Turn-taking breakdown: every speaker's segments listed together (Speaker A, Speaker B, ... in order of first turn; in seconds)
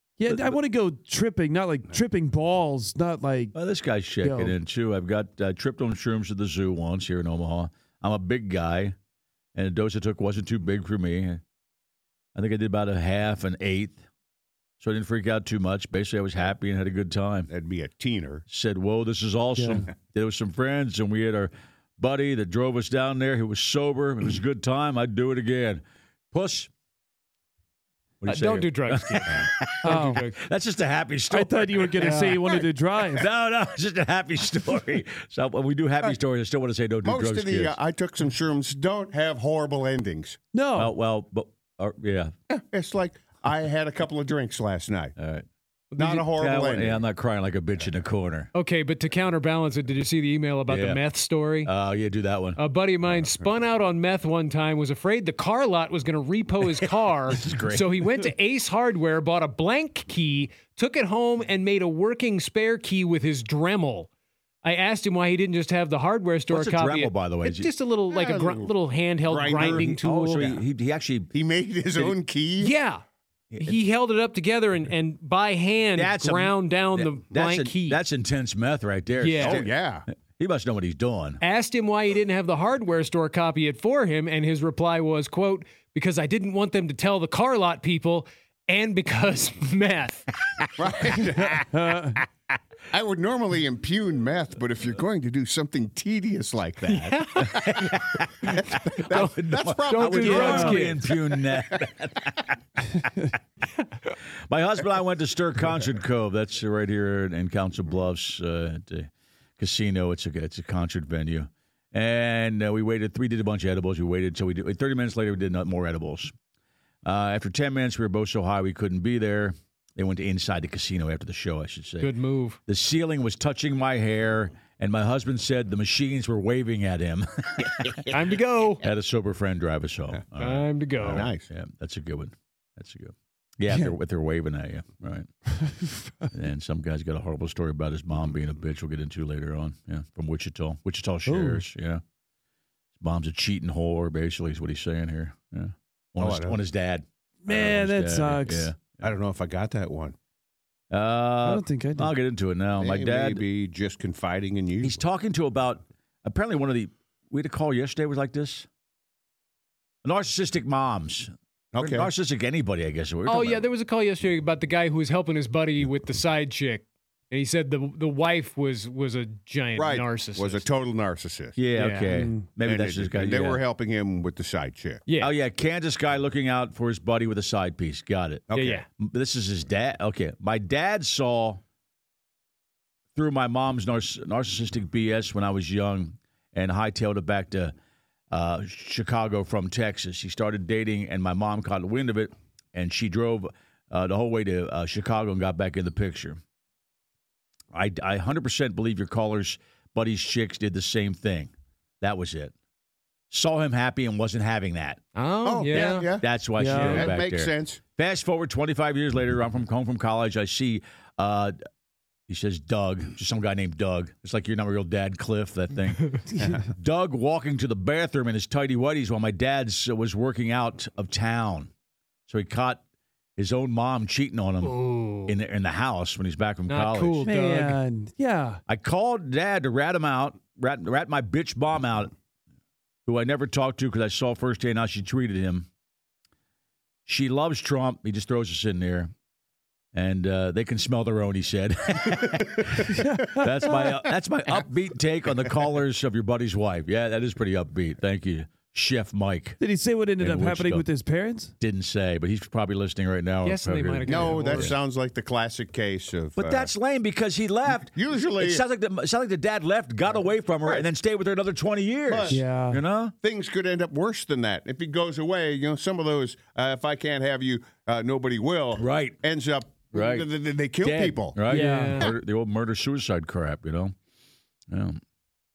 Speaker A: 0.2-3.5, 4.2-4.5, 19.6-19.9, 29.8-30.2, 31.3-33.2, 40.5-40.9, 91.6-92.2, 100.2-100.8, 133.7-133.9, 135.5-136.3, 141.3-141.6, 147.4-148.7, 151.4-152.1, 172.1-172.4, 206.6-207.1, 227.2-228.6, 242.9-243.9, 249.6-251.5, 262.3-262.8, 271.5-272.0
Speaker B: 0.3-0.5, 3.5-8.9, 9.5-11.4, 12.3-14.1, 14.8-17.5, 18.5-26.7, 28.2-32.6, 33.1-37.8, 40.8-42.3, 45.2-45.5, 46.1-48.5, 50.7-51.0, 51.6-52.6, 57.3-58.0, 66.5-67.7, 69.6-71.3, 73.5-73.8, 76.0-79.7, 80.4-81.4, 97.4-102.5, 104.5-116.3, 117.0-122.1, 122.7-128.0, 128.8-135.3, 136.3-142.0, 143.0-149.1, 150.9-153.4, 154.8-158.7, 160.0-163.6, 171.6-173.6, 175.2-181.6, 183.2-187.7, 188.3-196.4, 197.7-202.5, 203.3-205.0, 205.7-211.6, 212.3-221.7, 222.3-222.8, 223.4-227.2, 228.7-232.1, 233.1-235.7, 237.1-239.1, 239.9-249.6, 250.2-250.8, 251.6-254.8, 256.4-263.1, 268.8-269.2, 269.9-270.3, 270.8-273.9, 274.7-275.0
Speaker C: 17.5-18.4, 37.0-40.4, 42.5-45.1, 46.0-47.0, 68.1-68.7, 69.3-70.6, 71.3-72.7, 79.4-80.0, 90.8-92.0, 92.9-97.8, 98.5-101.4, 131.1-131.4, 146.2-146.6, 149.0-150.1, 152.8-155.0, 161.7-162.1, 169.8-171.6, 172.6-175.0, 178.5-178.8, 205.4-207.8, 254.1-256.7, 257.9-258.6, 262.1-262.4, 263.2-271.4
Speaker D: 28.2-30.4, 45.9-46.2, 48.5-51.7, 52.6-64.1, 64.6-70.5, 72.6-73.0, 73.6-78.0, 79.2-79.6, 81.4-90.3, 96.9-97.6, 98.5-101.2, 122.0-122.6, 128.1-128.8, 130.4-131.3, 163.3-170.6, 171.8-172.1, 175.1-175.3, 178.5-178.8, 205.2-206.1, 224.6-225.3, 226.7-227.8, 253.4-254.7, 271.5-272.1